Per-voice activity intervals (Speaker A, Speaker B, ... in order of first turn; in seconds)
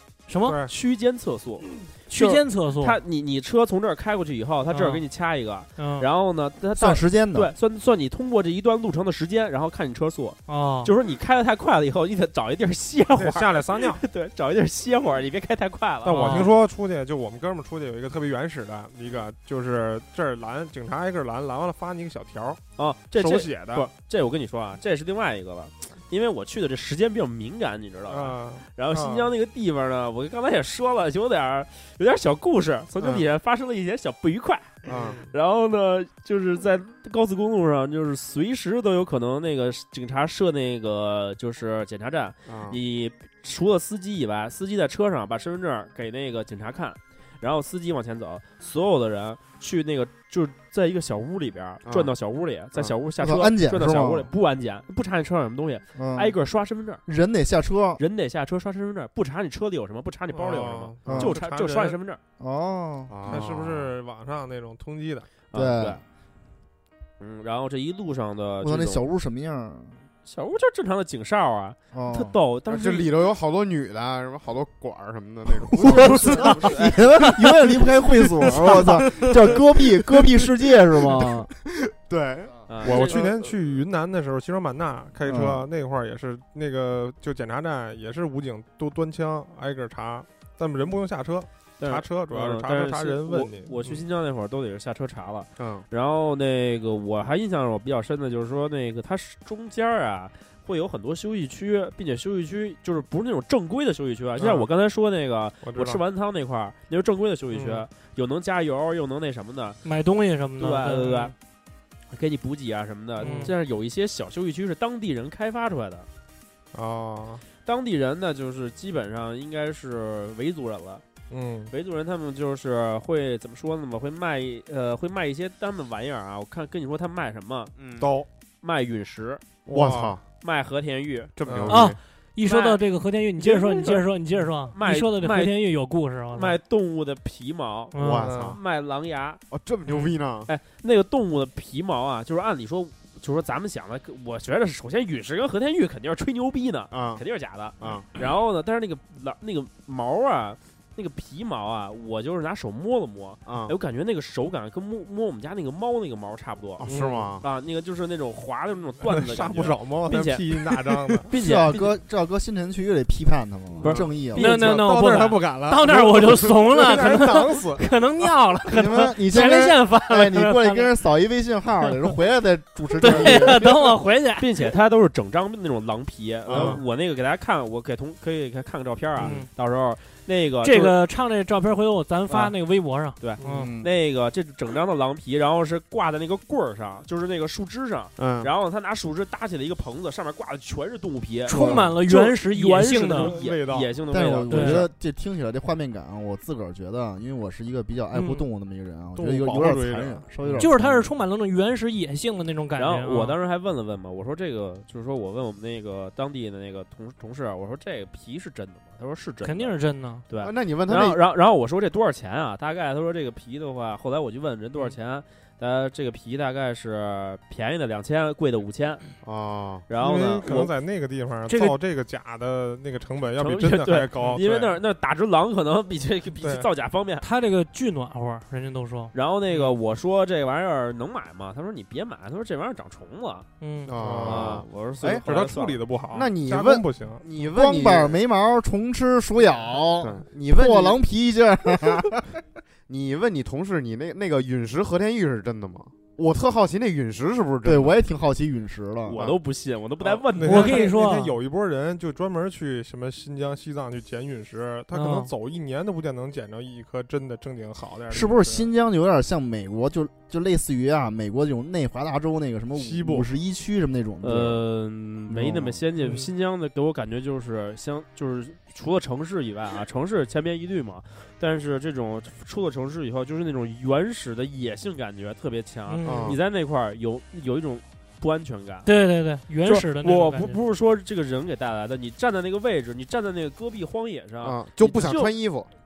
Speaker A: 0.3-0.6, 2.1-3.0, 4.7-5.0, 5.8-6.1, 10.5-10.9, 16.1-16.5, 109.8-111.3, 113.2-113.5, 131.7-136.6, 137.9-138.3, 164.3-171.0, 171.8-172.1, 173.0-174.5, 179.2-179.5, 180.6-183.7, 191.5-193.3, 194.5-194.8, 198.1-198.4, 200.6-203.4, 209.4-210.2, 221.5-221.8, 227.2-229.1, 233.6-233.9, 250.4-251.3, 254.9-255.3, 266.0-266.3, 275.9-276.4, 278.8-280.6
Speaker B: 0.4-0.7, 13.1-14.0, 16.0-22.6, 23.1-23.9, 28.1-29.3, 34.8-35.3, 60.3-62.0, 63.2-65.3, 82.8-94.0, 104.4-104.7, 105.6-106.0, 107.5-107.9, 113.2-113.5, 116.7-117.4, 121.3-121.7, 128.0-128.3, 129.7-130.2, 131.4-131.9, 138.2-138.6, 156.8-157.3, 159.0-161.3, 163.8-167.9, 183.4-183.7, 193.1-193.9, 199.1-200.7, 220.0-224.8, 226.4-226.7, 229.5-229.8, 233.9-237.2, 250.0-258.7, 262.7-263.3
Speaker C: 0.7-16.5, 22.8-57.0, 58.0-62.2, 65.5-66.0, 67.2-69.0, 70.2-73.1, 75.8-77.0, 82.7-83.2, 91.8-109.8, 110.6-111.3, 112.1-116.1, 117.6-121.0, 121.7-127.8, 128.6-129.6, 130.4-131.4, 132.4-132.8, 133.4-134.1, 134.7-135.6, 136.3-139.4, 140.5-161.9, 163.8-165.3, 173.1-173.5, 174.4-181.0, 182.3-182.5, 183.2-194.9, 202.8-209.8, 210.3-219.1, 219.9-220.7, 223.4-227.2, 229.1-233.5, 234.2-235.8, 249.1-250.9, 264.2-278.9, 279.6-285.3
Speaker D: 6.8-7.5, 53.2-54.3, 56.0-56.3, 57.0-58.0, 61.0-61.4, 62.4-63.4, 65.5-66.0, 68.6-70.0, 71.9-72.3, 75.7-81.5, 85.2-85.6, 161.3-164.6, 168.7-173.7, 191.5-192.0, 194.1-200.7, 237.5-242.2, 247.6-249.3, 258.1-264.6, 265.3-265.8
Speaker E: 34.9-35.2, 42.5-42.8, 51.9-52.1, 63.1-63.9, 72.7-76.9, 78.4-79.6, 81.0-83.5, 95.6-95.8, 127.8-128.1, 129.7-130.2, 131.4-132.0, 138.0-138.6, 139.5-140.5, 146.9-147.2, 147.8-148.1, 153.4-153.7, 156.8-157.4, 176.5-176.8, 183.4-183.9, 188.2-188.5, 210.4-211.2, 219.2-219.8, 233.9-235.2, 236.1-238.2, 240.0-241.0, 242.9-247.9, 276.0-276.4, 284.4-285.7